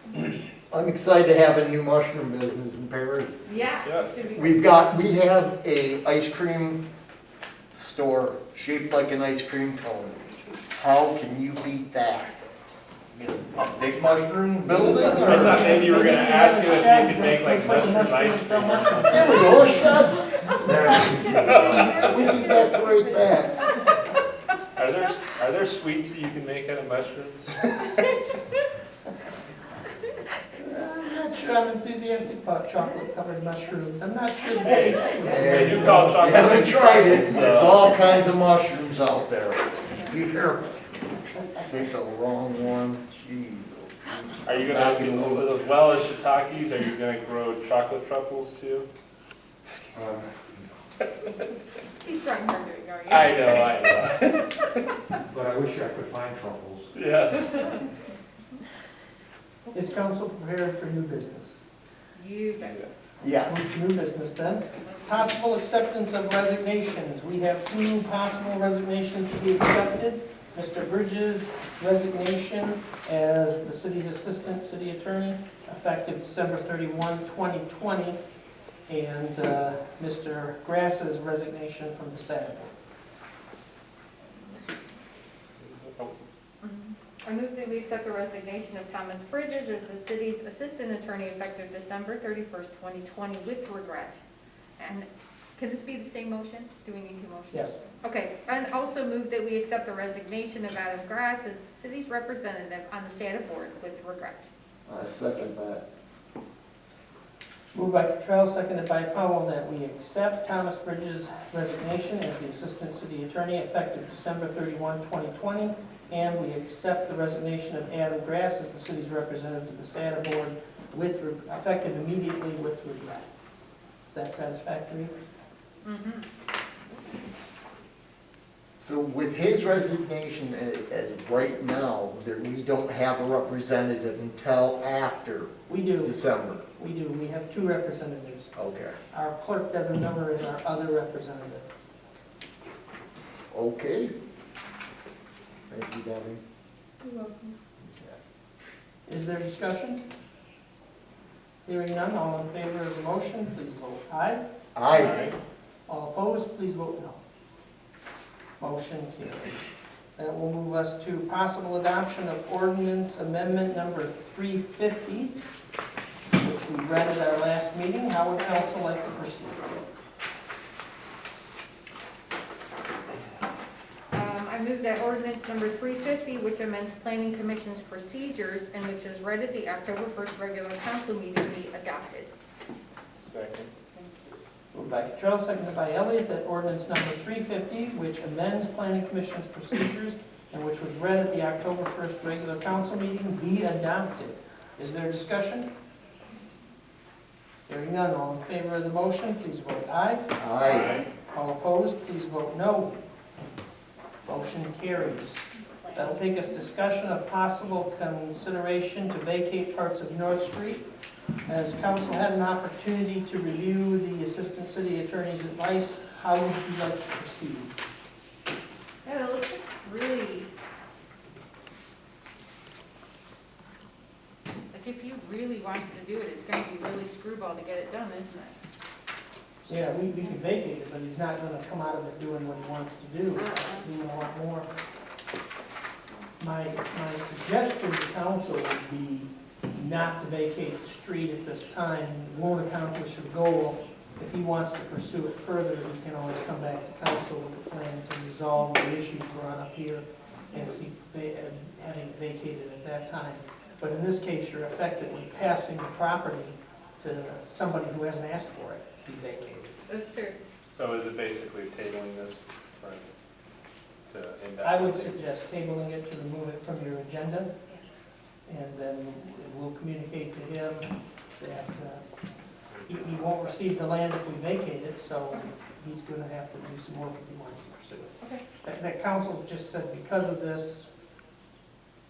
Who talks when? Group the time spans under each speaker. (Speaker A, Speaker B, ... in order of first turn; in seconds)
Speaker A: 0.7-3.3, 4.3-6.8, 7.7-12.3, 13.1-15.7, 19.1-20.5, 21.9-23.6, 35.2-40.9, 41.5-45.5, 63.2-63.6, 104.9-105.8, 128.8-136.6, 138.5-139.0, 143.5-144.1, 145.7-146.4, 154.7-155.2, 200.3-201.0
Speaker B: 3.4-4.6, 20.9-23.9, 52.0-53.9, 62.1-62.9, 86.6-94.2, 94.8-104.5, 125.8-126.2, 147.0-147.6, 174.1-182.3, 183.9-184.4, 205.8-206.1, 219.0-220.5, 224.7-228.6, 230.0-230.3, 233.3-233.9, 259.9-260.4
Speaker C: 3.8-4.3, 15.2-19.7, 21.4-22.1, 24.7-28.1, 34.7-37.9, 44.5-48.9, 53.1-54.7, 56.9-57.8, 62.6-62.9, 85.6-86.2, 155.0-155.3, 183.1-183.7, 200.6-201.1, 260.7-263.1, 264.1-265.2, 272.7-273.6
Speaker D: 14.7-19.9, 30.6-36.4, 59.7-61.5, 63.5-78.2, 78.9-82.8, 97.5-97.8, 107.7-123.3, 124.1-125.1, 135.7-136.2, 136.8-138.5, 139.1-141.6, 149.1-150.0, 151.7-154.4, 155.9-157.2, 158.6-165.3, 166.3-169.9, 184.7-195.7, 197.7-200.3, 201.2-202.9, 204.2-210.8, 211.4-217.7, 229.7-234.7, 236.4-259.8, 264.6-267.5, 268.5-272.0, 272.9-280.9
Speaker E: 20.6-22.2, 49.9-50.7, 55.3-56.9